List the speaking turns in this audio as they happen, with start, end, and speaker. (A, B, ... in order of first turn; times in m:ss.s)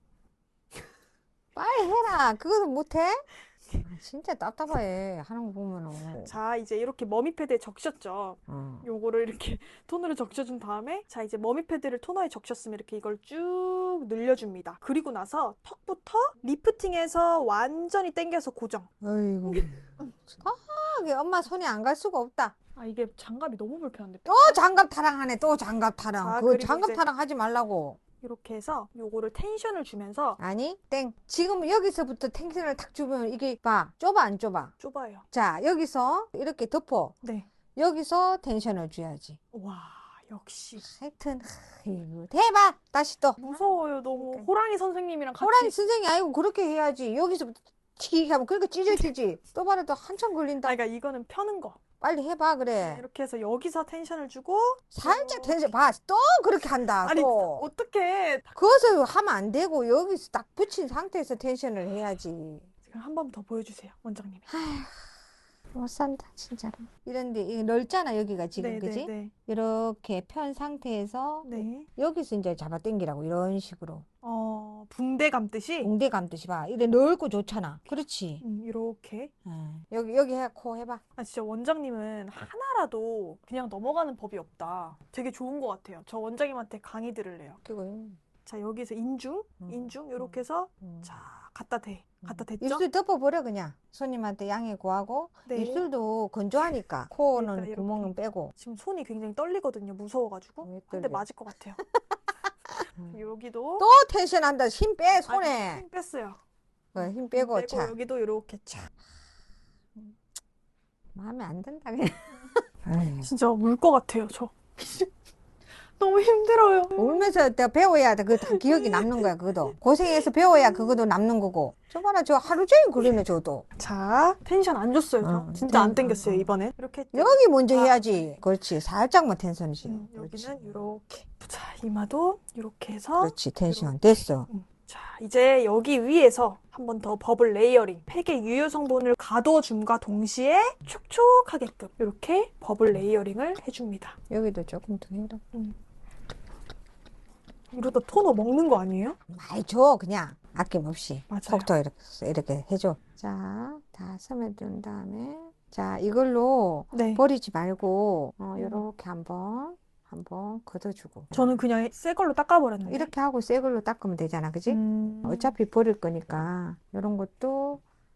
0:01.6-0:03.2 A
0:03.8-0:06.3 A
0:06.2-0:18.9 B
0:08.5-0:08.9 A
0:19.0-0:22.6 A
0:22.8-0:24.6 B
0:24.3-0:28.0 A
0:26.2-0:27.0 B
0:28.2-0:30.4 B
0:30.4-0:34.7 A
0:34.8-0:35.3 B
0:35.3-0:37.2 A
0:37.2-0:37.5 B
0:37.8-0:39.4 A
0:39.5-0:40.9 B
0:40.8-0:43.4 A
0:43.4-0:45.7 B
0:44.2-0:44.5 A
0:45.4-0:50.8 A
0:50.6-0:51.8 B
0:52.0-0:53.0 A
0:52.8-0:55.7 B
0:54.9-0:57.7 A
0:57.0-0:58.5 B
0:58.6-1:02.7 A
1:02.9-1:04.5 B
1:04.5-1:05.0 A
1:05.7-1:14.0 A
1:08.6-1:09.3 B
1:11.4-1:11.9 B
1:14.2-1:15.9 B
1:15.8-1:18.4 A
1:18.4-1:19.3 B
1:19.5-1:21.0 A
1:21.2-1:27.6 B
1:27.6-1:28.2 A
1:28.5-1:32.8 B
1:29.6-1:31.1 A
1:32.2-1:38.5 A
1:35.5-1:35.9 B
1:37.3-1:41.8 B
1:40.6-1:41.3 A
1:43.1-1:43.9 B
1:43.8-1:45.8 A
1:45.3-1:46.4 B
1:47.0-1:47.9 A
1:47.0-1:48.9 B
1:51.2-1:53.3 A
1:53.2-1:55.1 B
1:56.0-1:57.3 B
1:57.0-2:03.7 A
1:58.4-1:59.3 B
2:00.2-2:01.0 B
2:03.8-2:08.3 B
2:05.2-2:06.5 A
2:07.1-2:10.8 A
2:09.8-2:24.2 B
2:13.2-2:14.5 A
2:24.3-2:25.4 A
2:27.7-2:29.2 B
2:29.3-2:41.6 A
2:31.3-2:31.7 B
2:36.9-2:37.2 B
2:38.6-2:38.8 B
2:41.3-2:43.1 B
2:42.9-2:47.8 A
2:44.7-2:45.5 B